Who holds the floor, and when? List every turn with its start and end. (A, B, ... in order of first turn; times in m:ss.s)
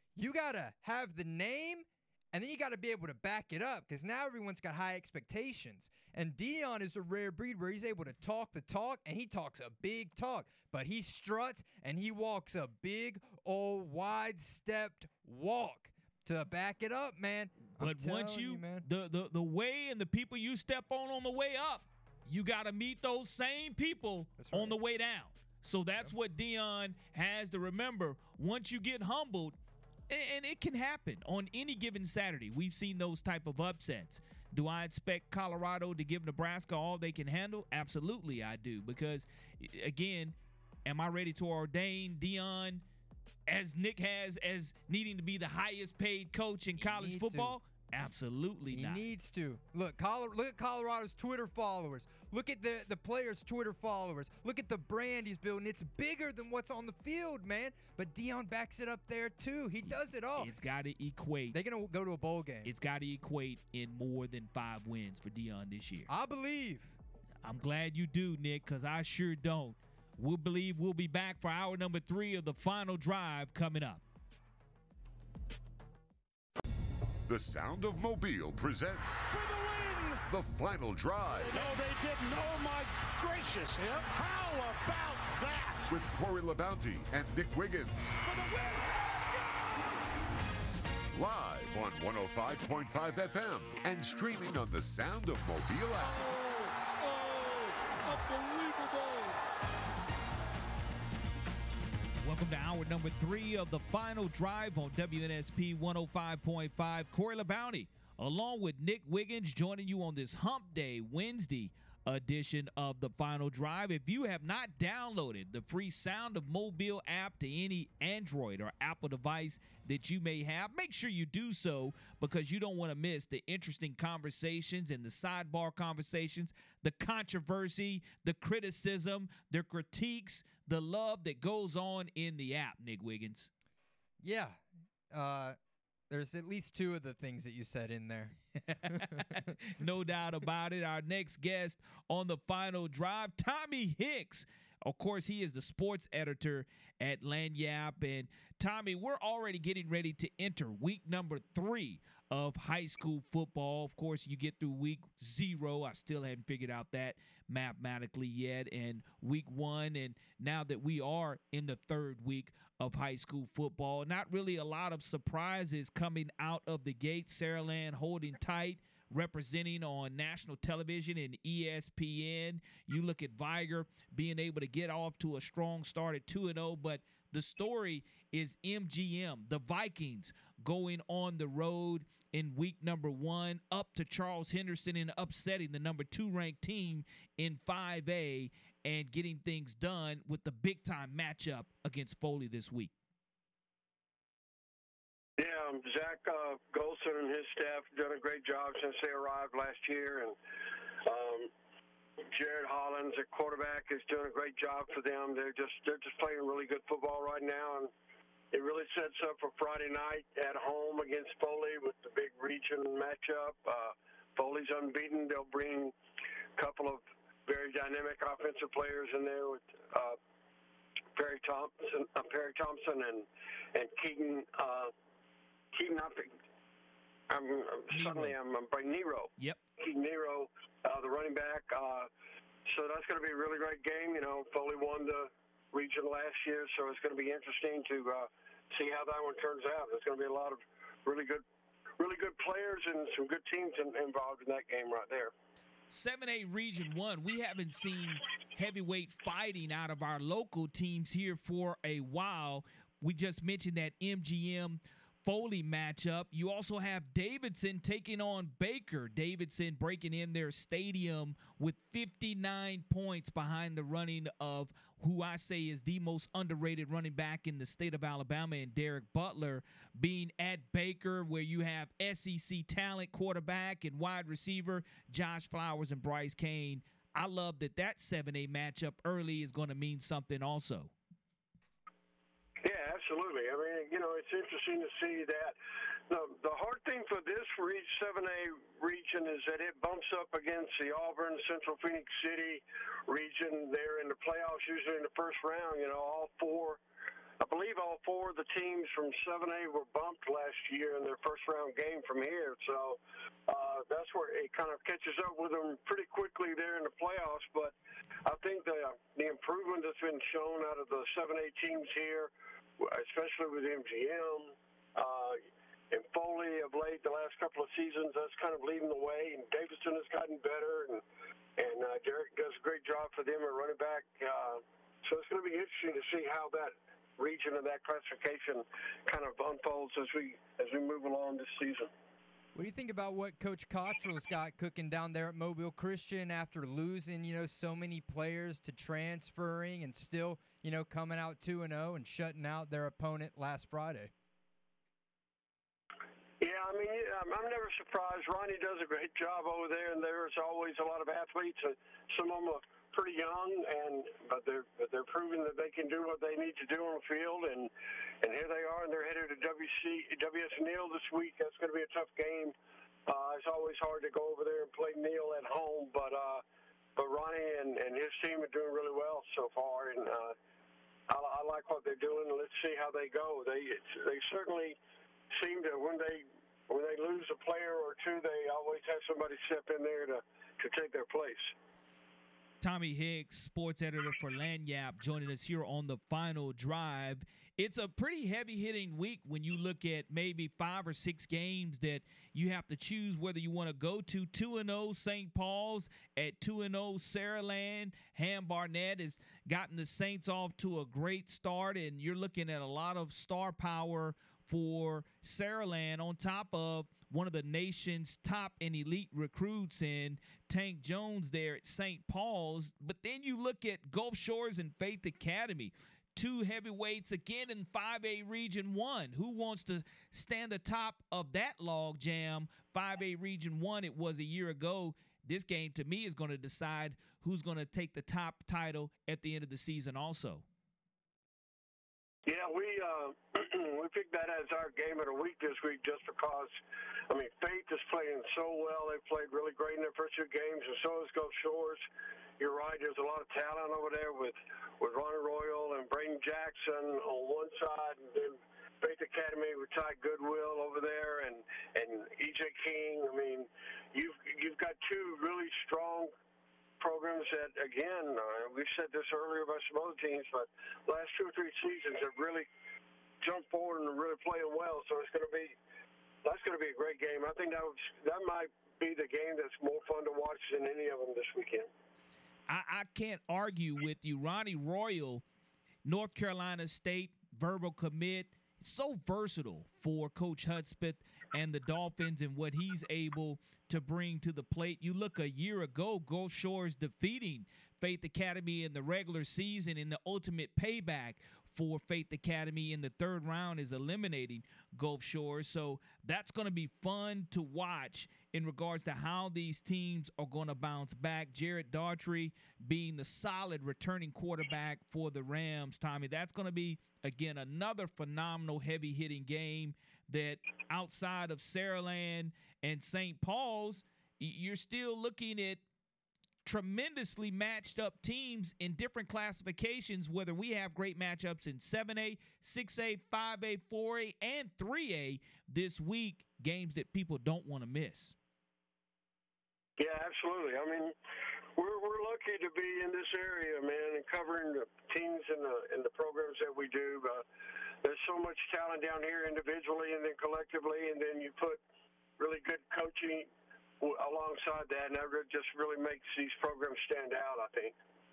0:00.2-0:18.8 A
0:17.8-0:29.6 B
0:24.4-0:24.8 A
0:30.1-0:42.8 B
0:43.5-0:49.0 B
0:46.8-0:47.6 A
0:48.7-1:00.5 A
1:00.4-1:01.6 B
1:01.5-1:02.7 A
1:02.6-1:06.1 B
1:06.1-1:07.0 A
1:07.4-1:14.0 B
1:17.3-1:19.2 C
1:19.2-1:20.3 D
1:20.3-1:21.8 C
1:21.4-1:25.9 D
1:25.9-1:28.2 C
1:28.2-1:29.0 D
1:31.1-1:36.2 C
1:36.0-1:39.4 D
1:42.2-2:13.5 B
2:14.2-2:14.6 A
2:15.1-2:15.6 A
2:16.1-2:19.4 A
2:18.7-3:12.9 B
3:15.4-3:20.4 E
3:21.0-3:21.5 E
3:22.2-3:27.9 E
3:28.5-3:35.9 E
3:36.6-3:40.2 E
3:41.2-3:44.9 E
3:45.7-3:46.3 E
3:47.3-3:52.1 E
3:47.9-3:48.4 B
3:52.7-4:01.4 E
4:02.0-4:05.3 E
4:05.9-4:40.9 B
4:42.6-4:45.6 E
4:46.1-4:56.8 E
4:57.4-5:07.7 E
5:08.2-5:21.0 E
5:21.6-5:31.9 E
5:32.5-5:44.1 A
5:46.4-5:57.7 E
5:58.2-6:02.5 E
6:03.1-6:06.4 E
6:07.0-6:10.3 E
6:11.1-6:14.8 E
6:15.3-6:21.5 E
6:22.6-7:10.4 B
7:12.3-7:16.5 E
7:17.1-7:21.8 E
7:22.4-7:36.1 E
7:36.8-7:42.4 E
7:43.2-7:45.5 E
7:46.2-7:51.7 E
7:52.5-7:55.2 B
7:55.8-8:35.6 B
8:36.4-8:48.1 B
8:49.8-8:50.9 E
8:51.6-8:57.2 E
8:57.8-9:01.6 E
9:02.2-9:03.3 E
9:03.8-9:07.7 E